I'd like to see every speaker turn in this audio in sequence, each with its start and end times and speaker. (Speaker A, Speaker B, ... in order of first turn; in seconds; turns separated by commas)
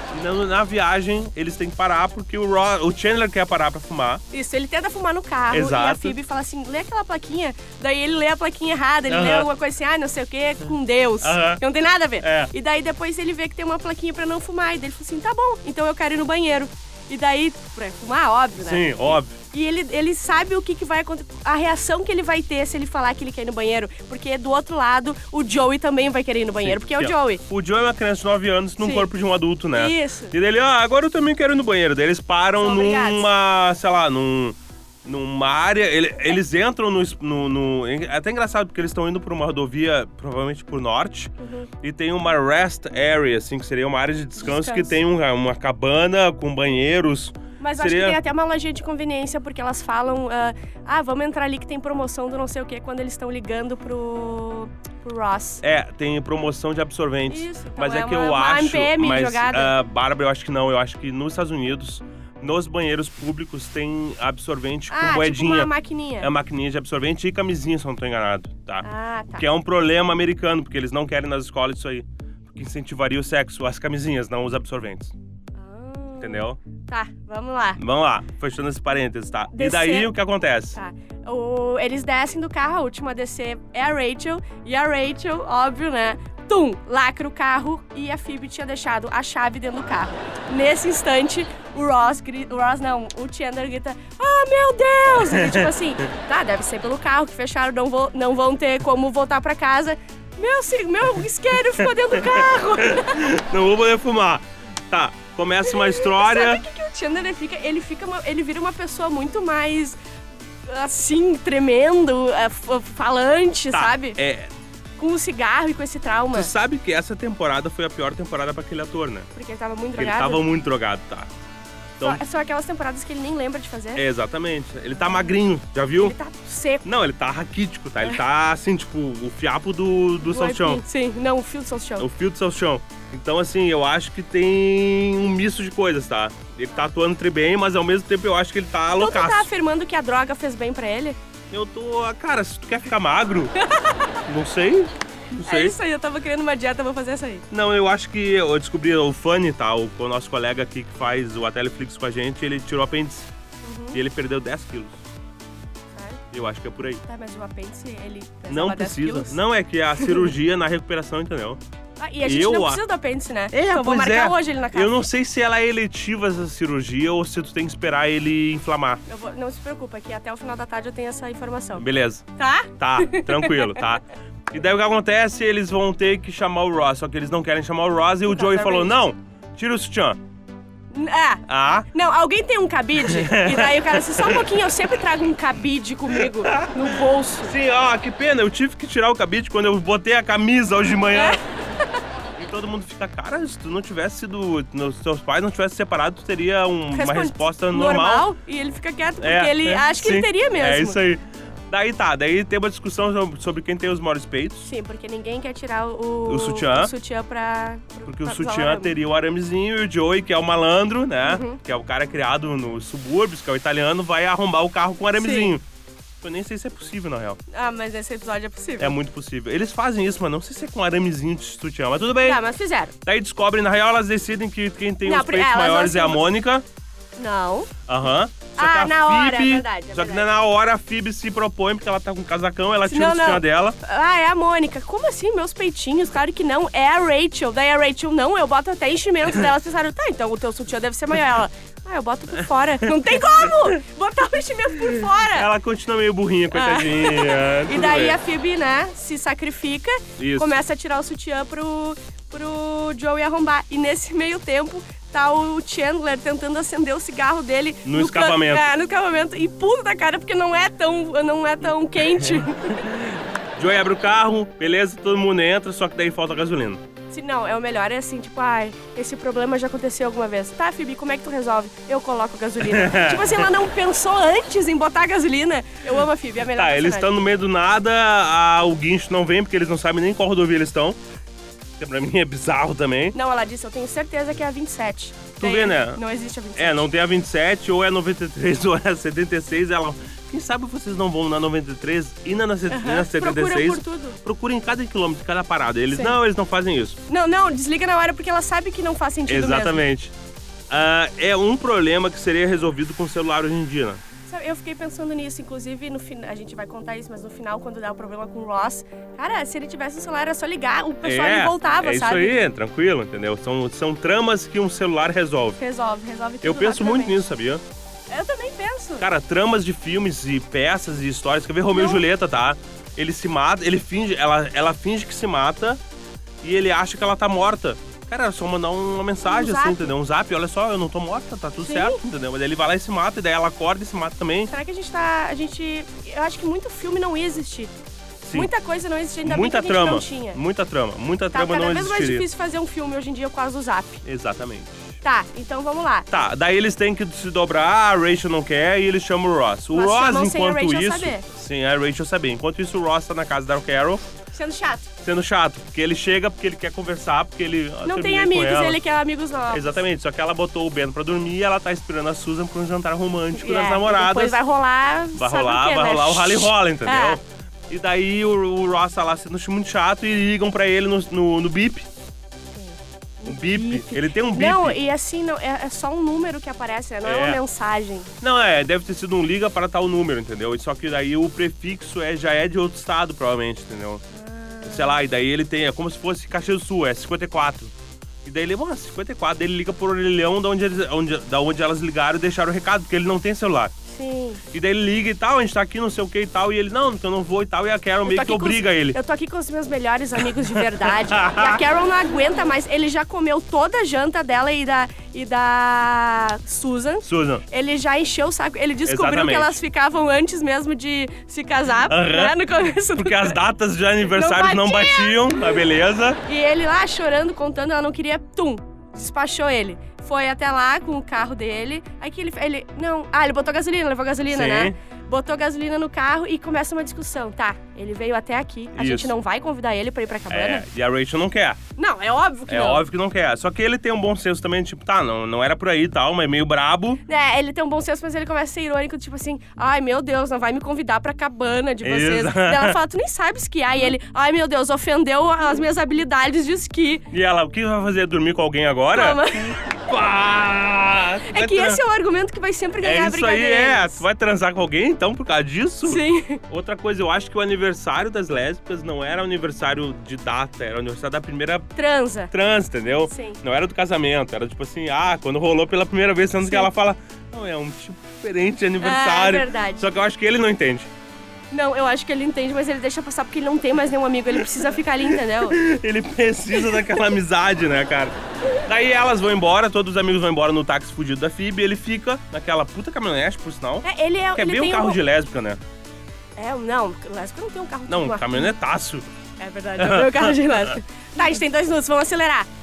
Speaker A: 0.1-4.2, Speaker B: 4.3-27.4, Speaker A: 5.5-6.2, Speaker A: 9.1-9.5, Speaker A: 11.2-11.6, Speaker A: 12.2-12.5, Speaker A: 18.6-19.4, Speaker A: 26.6-48.2, Speaker B: 28.8-29.1, Speaker B: 29.7-30.4, Speaker B: 32.6-33.3, Speaker B: 41.4-41.7, Speaker B: 44.4-45.0, Speaker B: 47.6-55.6, Speaker A: 55.6-68.8, Speaker B: 57.3-59.8, Speaker B: 64.9-66.3, Speaker B: 68.8-69.5, Speaker A: 69.4-75.1, Speaker B: 75.6-77.8, Speaker A: 76.2-76.6, Speaker A: 77.8-80.8, Speaker B: 79.5-80.1, Speaker B: 80.7-103.3, Speaker A: 95.1-95.8, Speaker A: 101.7-106.6, Speaker B: 105.6-110.0, Speaker B: 110.7-114.2, Speaker A: 113.7-114.5, Speaker B: 115.0-116.5, Speaker A: 116.3-119.3, Speaker B: 119.3-120.5, Speaker A: 120.0-121.3, Speaker B: 122.0-124.0, Speaker A: 124.0-126.2, Speaker B: 126.0-126.8, Speaker A: 126.8-130.8, Speaker B: 130.2-132.1, Speaker A: 132.0-139.5, Speaker B: 139.0-141.2, Speaker A: 141.5-143.6, Speaker B: 143.6-144.2, Speaker A: 144.3-145.8, Speaker B: 145.4-147.4, Speaker A: 147.5-153.3, Speaker B: 153.6-154.0, Speaker A: 153.9-155.0, Speaker B: 155.9-156.2, Speaker A: 156.3-157.0, Speaker B: 157.1-159.4, Speaker A: 158.5-161.6, Speaker B: 160.0-160.3, Speaker B: 162.0-165.0, Speaker A: 162.2-162.8, Speaker A: 163.5-169.0, Speaker B: 169.1-171.8, Speaker A: 171.8-180.2, Speaker B: 172.4-173.9, Speaker B: 178.3-179.0, Speaker B: 180.9-187.6, Speaker A: 181.5-181.9, Speaker A: 183.0-184.7, Speaker A: 186.1-191.4, Speaker B: 191.1-192.0, Speaker A: 192.4-198.3, Speaker B: 196.9-201.0, Speaker A: 199.2-204.7, Speaker B: 204.6-208.9, Speaker A: 206.3-206.9, Speaker A: 208.1-215.6, Speaker B: 211.2-211.6, Speaker B: 215.2-215.6, Speaker A: 216.2-217.4, Speaker B: 217.5-219.0, Speaker A: 218.8-222.4, Speaker B: 222.2-222.9, Speaker A: 223.0-226.7, Speaker B: 225.0-226.3, Speaker B: 227.2-227.7, Speaker A: 227.9-233.8, Speaker B: 228.6-230.3, Speaker B: 232.9-245.5, Speaker A: 242.8-243.8, Speaker A: 244.8-248.2, Speaker B: 246.5-262.9, Speaker A: 250.2-250.5, Speaker A: 257.9-258.7, Speaker A: 262.3-266.8, Speaker B: 267.1-277.2, Speaker A: 272.6-273.5, Speaker A: 276.4-281.0, Speaker A: 281.8-283.2, Speaker B: 283.1-286.9, Speaker A: 285.4-286.0, Speaker A: 286.6-297.0, Speaker B: 292.7-294.2, Speaker B: 295.9-296.2, Speaker B: 297.1-299.8, Speaker A: 299.3-300.1, Speaker A: 300.7-304.0, Speaker B: 304.3-312.4, Speaker A: 311.0-315.6, Speaker B: 315.6-317.2, Speaker A: 316.4-317.6, Speaker B: 318.1-319.1, Speaker A: 319.0-325.8, Speaker B: 321.7-322.0, Speaker A: 326.4-334.5, Speaker B: 329.2-329.9, Speaker B: 331.6-332.0, Speaker B: 334.5-337.8, Speaker A: 338.2-338.5, Speaker B: 338.3-340.4, Speaker A: 339.2-342.3, Speaker B: 341.3-344.0, Speaker A: 344.0-345.0, Speaker B: 345.0-346.1, Speaker A: 346.1-354.0, Speaker B: 349.7-351.3, Speaker B: 354.3-354.9, Speaker A: 355.0-358.8, Speaker B: 357.8-359.8, Speaker A: 359.5-364.4, Speaker B: 363.3-367.2, Speaker A: 365.1-371.9, Speaker B: 372.5-378.1, Speaker A: 373.3-374.8, Speaker A: 377.1-377.4, Speaker A: 378.2-384.0, Speaker B: 384.1-385.0, Speaker A: 384.6-387.7, Speaker A: 388.2-393.7, Speaker B: 393.9-394.4, Speaker A: 394.5-399.0, Speaker B: 398.1-413.4, Speaker A: 400.5-401.6, Speaker A: 407.0-407.4, Speaker A: 408.9-409.6, Speaker A: 411.9-416.2, Speaker B: 414.0-415.6, Speaker B: 416.2-430.7, Speaker A: 424.3-424.8, Speaker A: 428.8-429.1, Speaker A: 430.3-431.6, Speaker B: 431.8-432.9, Speaker A: 432.5-437.0, Speaker B: 437.1-447.1, Speaker A: 441.8-442.8, Speaker A: 447.1-449.3, Speaker B: 448.9-449.6, Speaker A: 449.9-451.8, Speaker B: 451.3-454.0, Speaker A: 452.8-461.7, Speaker B: 455.9-456.4, Speaker B: 461.8-462.3, Speaker A: 462.3-470.9, Speaker B: 463.1-463.4, Speaker B: 466.4-466.7, Speaker B: 468.8-469.9, Speaker B: 471.5-475.6, Speaker A: 475.2-485.6, Speaker B: 476.6-477.0, Speaker B: 483.8-485.0, Speaker B: 486.4-488.5, Speaker A: 487.9-489.1, Speaker B: 489.4-492.5, Speaker A: 489.8-490.8